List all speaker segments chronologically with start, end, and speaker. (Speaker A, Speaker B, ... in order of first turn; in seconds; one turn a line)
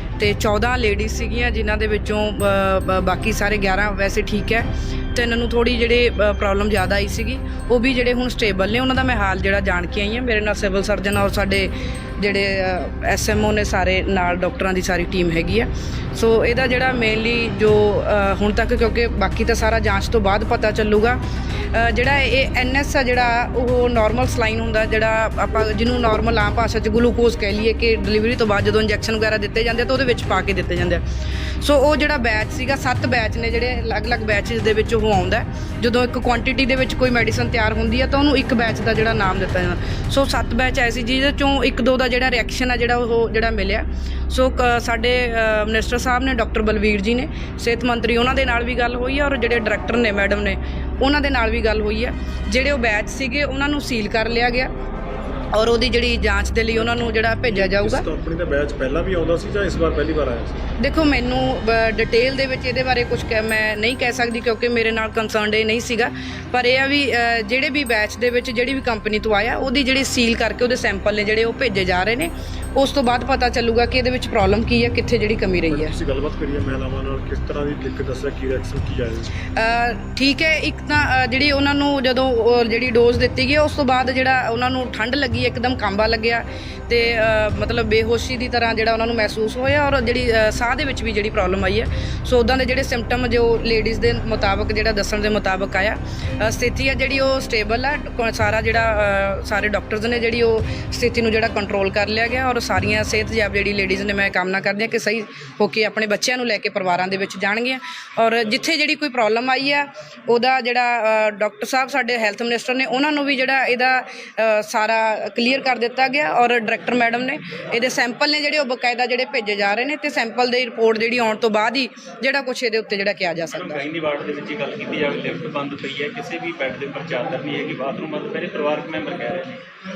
Speaker A: 0.2-21.2
Speaker A: 21.7-31.0
Speaker A: 31.6-54.7
Speaker A: 55.5-58.0
Speaker B: 57.5-60.7
Speaker A: 60.8-75.9
Speaker B: 75.7-79.3
Speaker A: 79.5-123.8
Speaker C: 123.5-129.6